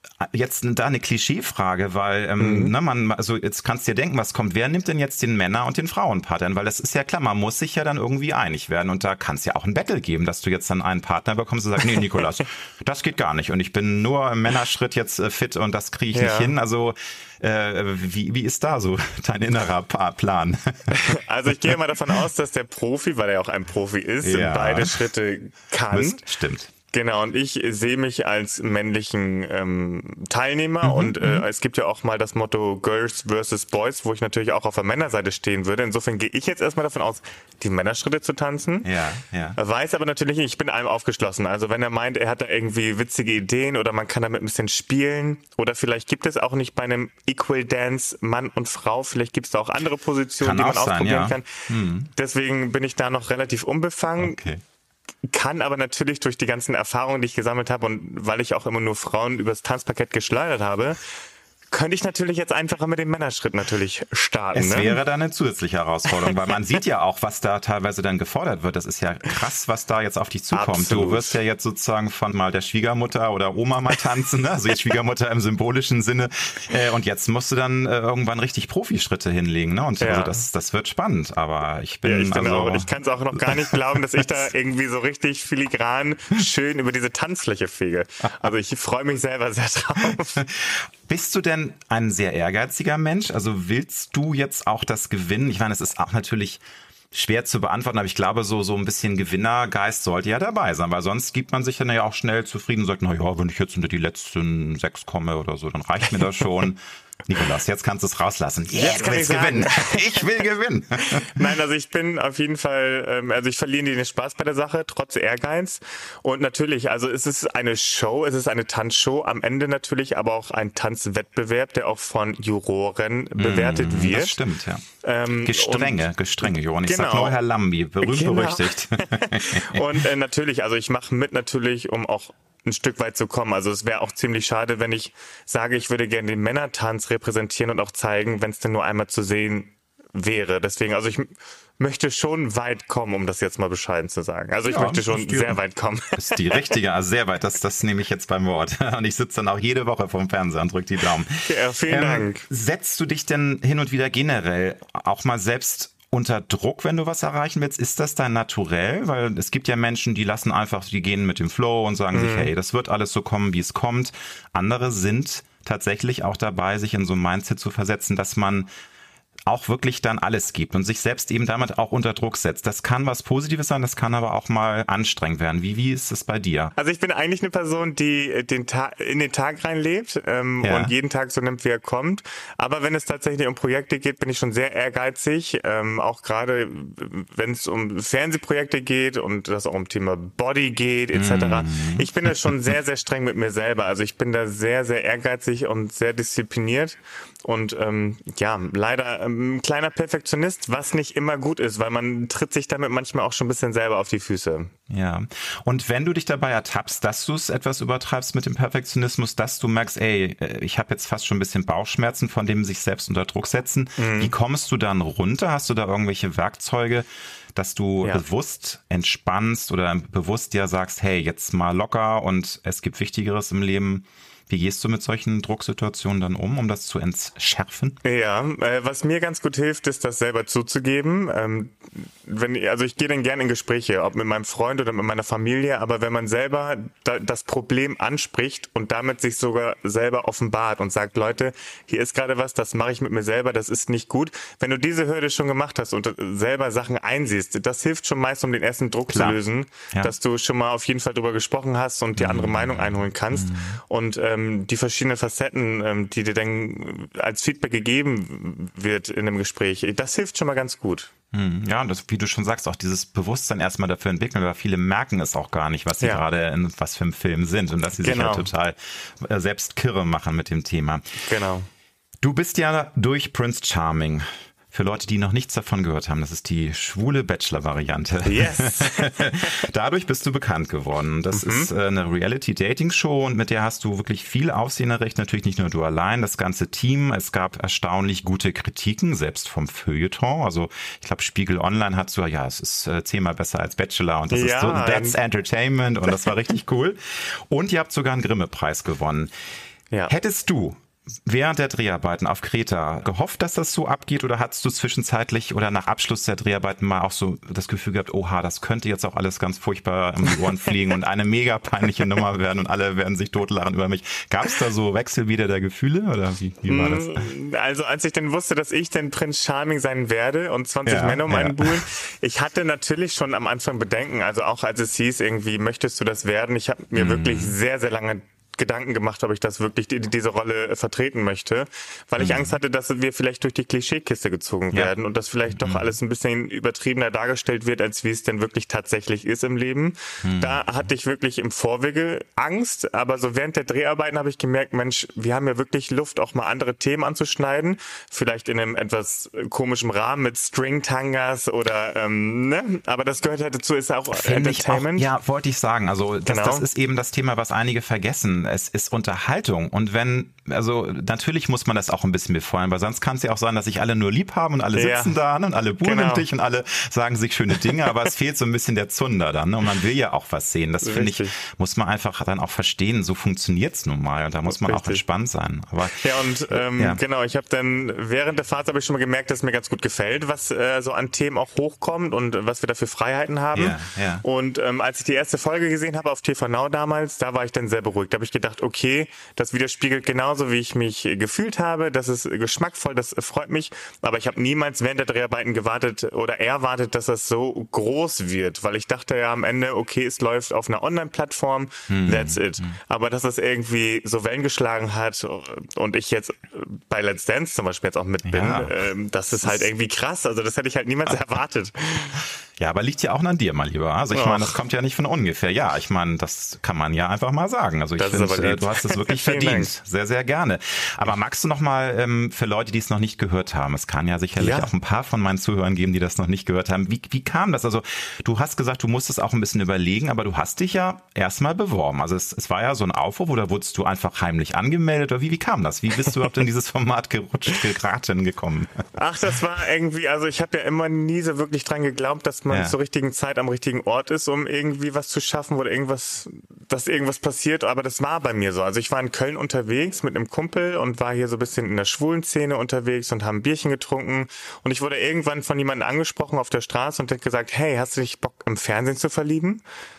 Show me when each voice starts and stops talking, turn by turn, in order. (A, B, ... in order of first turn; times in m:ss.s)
0:00.2-0:21.2 A
0:02.4-0:02.7 B
0:16.1-0:16.5 B
0:21.0-0:26.2 B
0:24.2-0:25.0 A
0:25.9-0:26.7 A
0:26.9-0:38.9 B
0:30.8-0:31.4 A
0:38.8-0:39.6 A
0:39.6-0:51.5 B
0:50.4-0:52.1 A
0:52.2-0:54.4 B
0:54.2-0:54.6 A
0:55.3-1:01.0 B
1:01.7-1:05.0 B
1:04.5-1:24.4 A
1:10.5-1:11.4 B
1:20.0-1:20.4 B
1:22.0-1:30.4 B
1:30.4-1:51.4 A
1:48.8-1:50.3 B
1:51.0-2:04.4 B
2:03.4-2:04.9 A
2:05.0-2:07.4 B
2:05.4-2:09.8 A
2:08.0-2:26.7 B
2:24.7-2:25.6 A
2:26.2-2:48.7 A
2:31.4-2:32.5 B
2:42.1-2:42.5 B
2:49.5-2:56.7 A
2:56.8-3:24.7 B
3:00.6-3:00.9 A
3:11.1-3:12.3 A
3:24.9-3:48.0 A
3:34.0-3:34.3 B
3:48.0-4:21.1 B
4:09.1-4:09.4 A
4:12.2-4:13.8 A
4:21.3-4:31.2 A
4:28.0-4:28.5 B
4:31.3-4:31.7 B
4:32.2-4:59.3 A
4:38.2-4:39.5 B
4:41.3-4:41.7 B
4:54.3-4:55.2 B
5:00.1-5:17.3 A
5:16.7-5:55.1 B
5:20.8-5:21.8 A
5:26.9-5:27.6 A
5:32.2-5:32.5 A
5:35.6-5:35.9 A
5:40.2-5:40.6 A
5:54.1-6:17.0 A
5:56.3-5:56.7 B
6:04.8-6:05.2 B
6:05.8-6:06.3 B
6:10.8-6:11.4 B
6:14.5-6:15.0 B
6:15.9-6:52.2 B
6:23.5-6:24.2 A
6:41.9-6:42.8 A
6:48.3-6:48.7 A
6:52.6-7:18.8 A
6:54.1-6:54.6 B
6:58.0-6:59.7 B
7:04.4-7:04.7 B
7:19.0-7:39.6 B
7:22.5-7:22.7 A